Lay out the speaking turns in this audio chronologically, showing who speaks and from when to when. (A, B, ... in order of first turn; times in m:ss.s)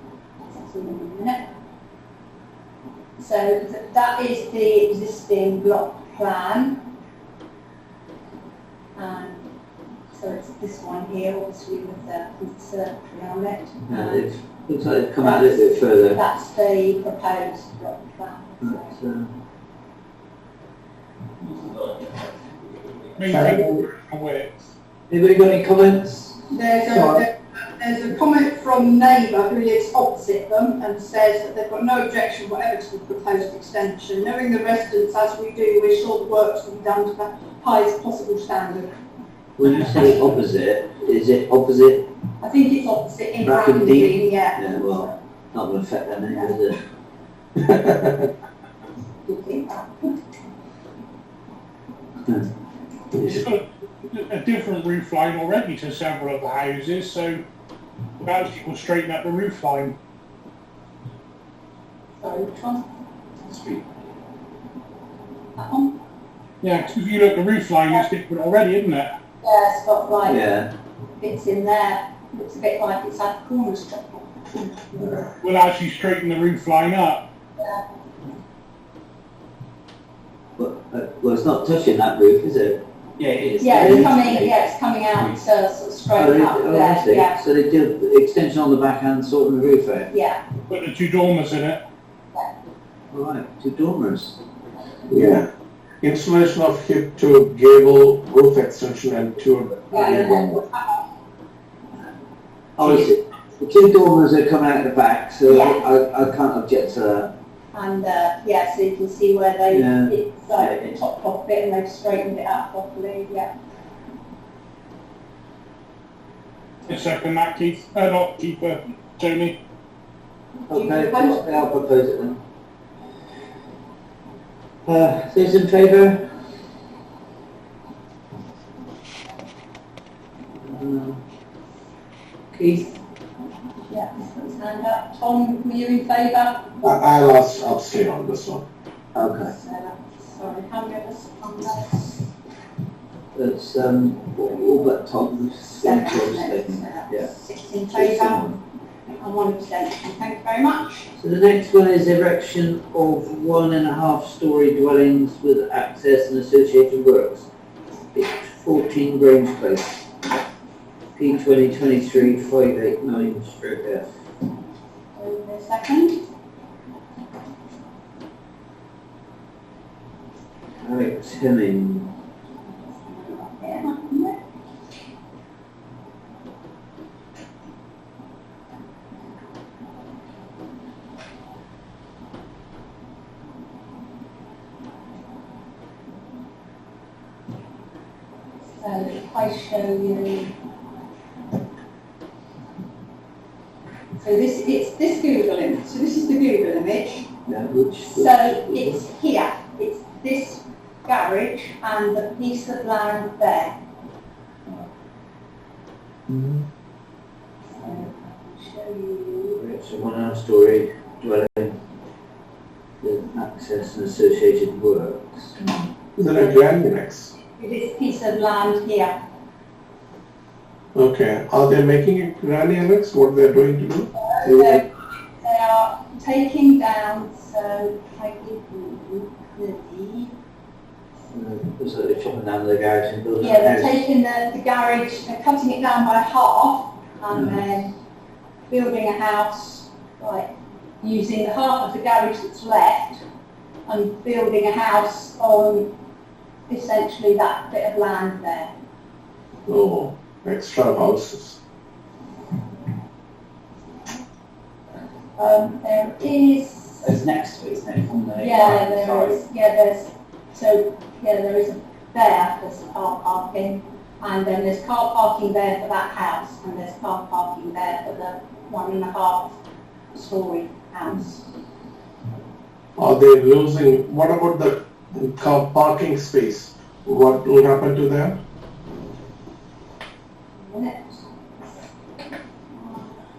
0:00.5-0:01.4 A
0:03.2-0:06.8 A
0:09.0-0:09.4 A
0:10.1-0:14.3 A
0:13.9-0:16.2 B
0:15.2-0:19.0 A
0:18.6-0:19.3 B
0:23.2-0:24.6 C
0:23.3-0:23.8 D
0:25.1-0:26.4 B
0:26.5-0:38.9 A
0:26.9-0:27.2 D
0:39.6-0:42.1 B
0:42.4-0:45.2 A
0:43.4-0:46.8 B
0:47.6-0:48.3 D
0:49.2-0:50.1 A
0:53.2-0:57.4 C
0:58.2-0:59.9 C
1:02.2-1:02.8 A
1:05.6-1:06.0 A
1:06.6-1:09.1 C
1:09.4-1:10.4 A
1:10.2-1:10.7 B
1:11.2-1:15.0 A
1:15.4-1:17.2 C
1:20.6-1:22.8 B
1:23.2-1:24.6 E
1:23.6-1:27.4 A
1:23.7-1:24.3 B
1:26.1-1:30.1 B
1:30.1-1:30.4 A
1:30.7-1:31.8 C
1:33.1-1:34.4 B
1:35.1-1:35.5 D
1:36.0-1:40.6 D
1:39.9-1:40.9 A
1:42.8-1:47.3 B
1:45.4-1:45.8 A
1:47.7-1:53.5 A
1:49.7-1:51.0 B
1:56.9-1:59.6 C
2:00.7-2:02.4 B
2:00.7-2:01.4 A
2:04.8-2:06.2 B
2:10.6-2:11.2 B
2:12.5-2:13.0 B
2:13.9-2:16.7 A
2:16.8-2:18.6 D
2:19.1-2:19.5 B
2:19.4-2:22.3 A
2:23.3-2:27.3 B
2:25.6-2:28.5 A
2:27.9-2:28.6 B
2:29.2-2:31.1 A
2:31.1-2:37.5 B
2:38.1-2:40.0 B
2:41.2-2:44.1 B
2:45.2-2:46.2 A
2:50.8-2:52.1 B
2:52.9-2:54.4 A
3:08.8-3:10.5 A
3:14.2-3:17.3 A
3:17.5-3:19.0 B
3:18.1-3:23.8 A
3:27.7-3:29.6 A
3:29.5-3:31.8 B
3:33.0-3:35.6 B
3:36.2-3:37.3 D
3:37.6-3:39.1 A
3:40.9-3:44.6 D
3:44.2-3:50.3 A
3:51.3-3:54.0 B
3:53.4-3:57.9 A
3:58.7-4:03.2 A
4:03.9-4:05.9 A
4:06.7-4:08.7 A
4:09.7-4:11.6 D
4:15.4-4:17.1 A
4:17.0-4:19.3 B
4:18.4-4:29.6 A
4:18.4-4:19.2 E
4:30.1-4:31.4 A
4:33.0-4:38.4 D
4:40.6-4:41.2 A
4:42.7-4:43.2 A